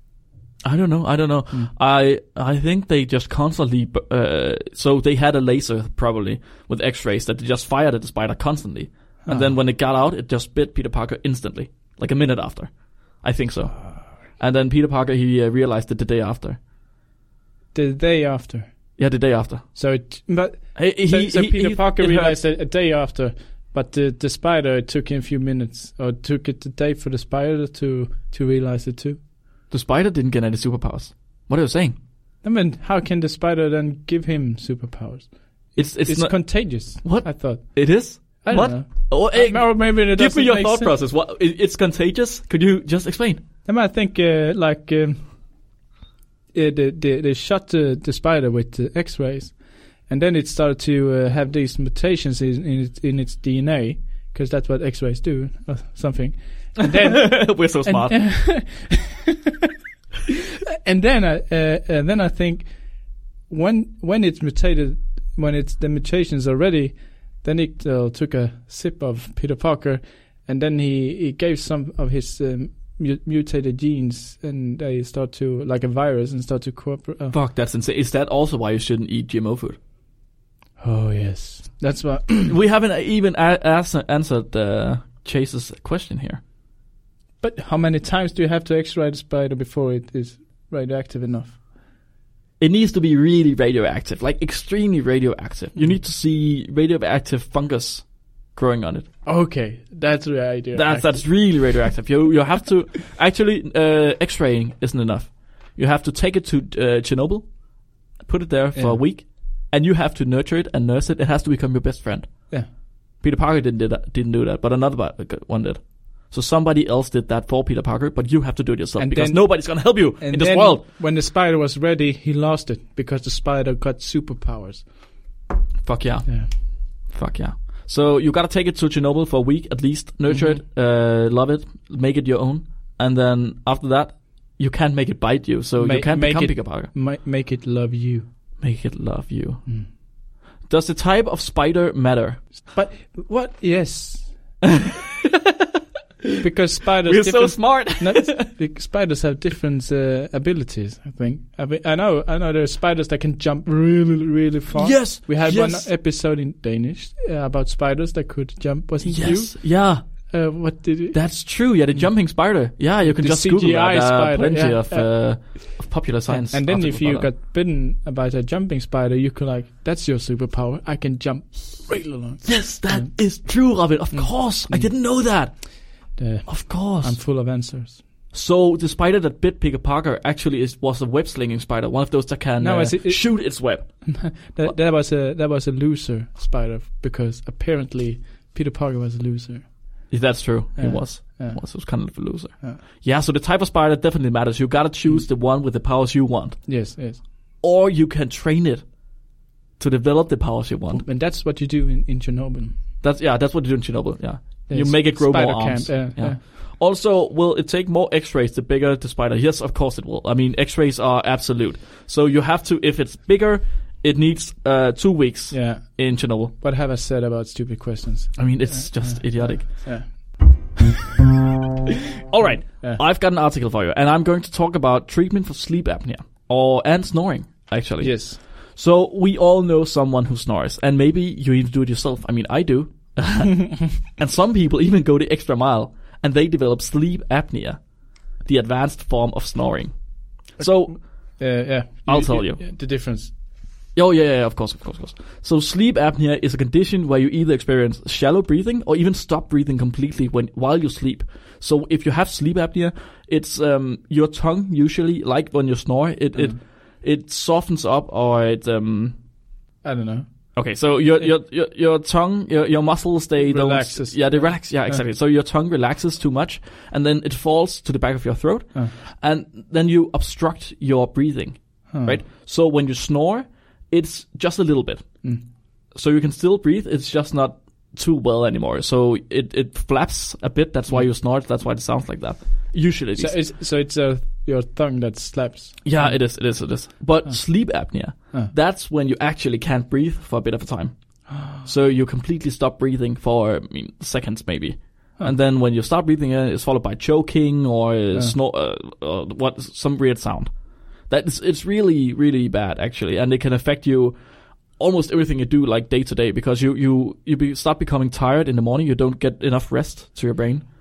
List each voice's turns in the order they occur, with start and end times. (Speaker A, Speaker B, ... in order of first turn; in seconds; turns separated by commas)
Speaker A: 0.6-16.6, Speaker B: 9.2-9.6, Speaker B: 17.7-18.7, Speaker A: 19.0-19.6, Speaker B: 19.7-29.2, Speaker A: 20.8-22.4, Speaker A: 29.7-31.9, Speaker B: 32.4-40.9, Speaker A: 35.8-43.4, Speaker B: 43.7-45.3, Speaker B: 46.5-49.6, Speaker B: 50.1-59.4, Speaker A: 56.9-58.4, Speaker B: 60.8-62.7, Speaker B: 63.5-77.3, Speaker A: 77.3-79.8, Speaker B: 80.8-82.5, Speaker A: 82.5-86.4, Speaker B: 87.4-91.6, Speaker A: 92.6-99.1, Speaker B: 99.2-101.3, Speaker A: 100.7-107.5, Speaker A: 108.2-112.6, Speaker A: 113.2-120.8, Speaker B: 119.0-124.9, Speaker A: 125.8-136.9, Speaker B: 126.3-126.5, Speaker B: 130.3-130.6, Speaker B: 135.8-138.3, Speaker A: 138.6-139.6, Speaker A: 140.7-142.4, Speaker B: 142.7-144.3, Speaker A: 144.6-145.7, Speaker B: 146.4-161.2, Speaker A: 147.1-148.5, Speaker A: 154.7-155.9, Speaker A: 159.0-160.0, Speaker A: 161.1-167.3, Speaker B: 163.0-173.2, Speaker A: 172.4-175.9, Speaker B: 174.1-174.9, Speaker B: 176.1-178.0, Speaker A: 176.4-177.2, Speaker A: 178.3-184.1, Speaker B: 182.6-189.8, Speaker A: 190.1-196.8, Speaker B: 190.8-191.6, Speaker B: 196.7-197.2, Speaker A: 197.6-198.8, Speaker A: 199.8-201.1, Speaker B: 200.9-202.8, Speaker A: 203.0-216.5, Speaker B: 204.7-206.4, Speaker B: 215.5-220.8, Speaker A: 218.4-219.9, Speaker A: 222.3-237.8, Speaker B: 228.0-228.4, Speaker A: 238.4-241.1, Speaker B: 240.6-243.3, Speaker A: 242.1-242.6, Speaker A: 243.9-259.2, Speaker B: 259.8-260.3, Speaker A: 260.6-275.1, Speaker B: 263.4-265.0, Speaker B: 271.9-272.2, Speaker A: 275.9-283.4, Speaker B: 283.2-286.3, Speaker A: 285.8-300.5, Speaker B: 291.3-291.7, Speaker A: 301.1-304.2, Speaker A: 304.8-310.6